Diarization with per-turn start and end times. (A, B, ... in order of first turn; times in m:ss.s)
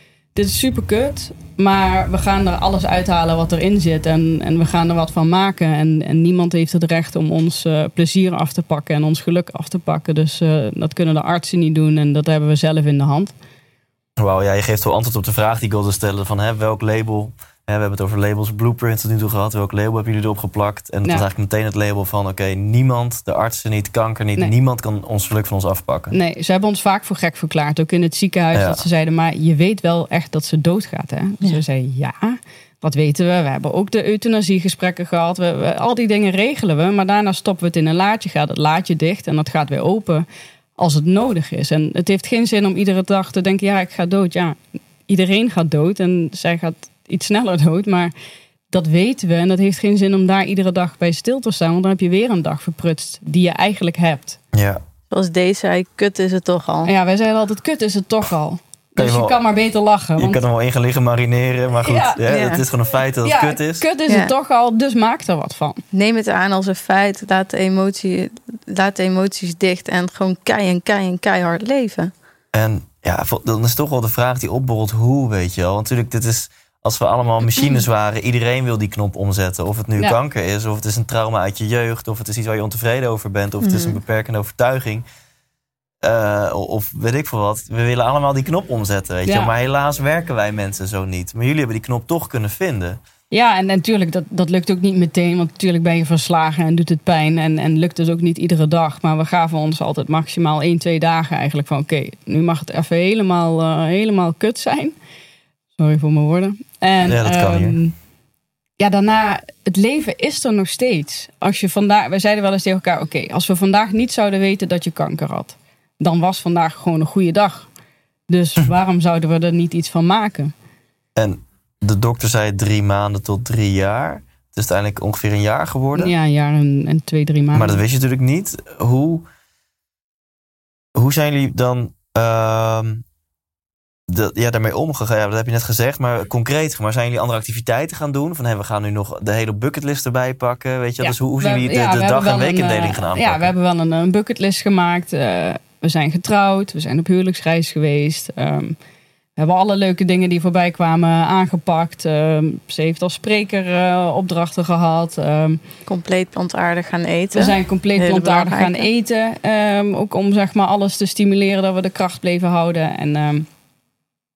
0:00.4-0:13.3 A
0:14.2-0:26.1 B
0:26.1-0:40.3 A
0:28.5-0:28.8 B
0:40.8-0:48.1 A
0:48.7-0:54.4 A
0:54.5-0:54.8 B
0:55.1-0:56.9 C
0:56.9-1:00.4 A
0:59.0-0:59.4 B
1:00.2-1:03.8 B
1:01.8-1:02.2 A
1:02.3-1:02.6 C
1:03.2-1:05.8 A
1:05.9-1:12.1 C
1:12.5-1:25.0 B
1:23.6-1:24.0 C
1:26.0-1:33.0 B
1:29.3-1:29.5 A
1:33.3-1:44.9 A
1:45.8-1:48.0 A
1:47.0-1:47.8 B
1:48.8-1:57.7 A
1:58.3-2:00.5 A
2:01.2-2:06.1 B
2:06.0-2:07.8 A
2:07.5-2:09.3 B
2:11.0-2:13.0 B
2:14.1-2:23.5 B
2:21.0-2:28.8 A
2:29.4-2:35.6 A
2:35.9-2:38.9 C
2:37.4-2:43.5 A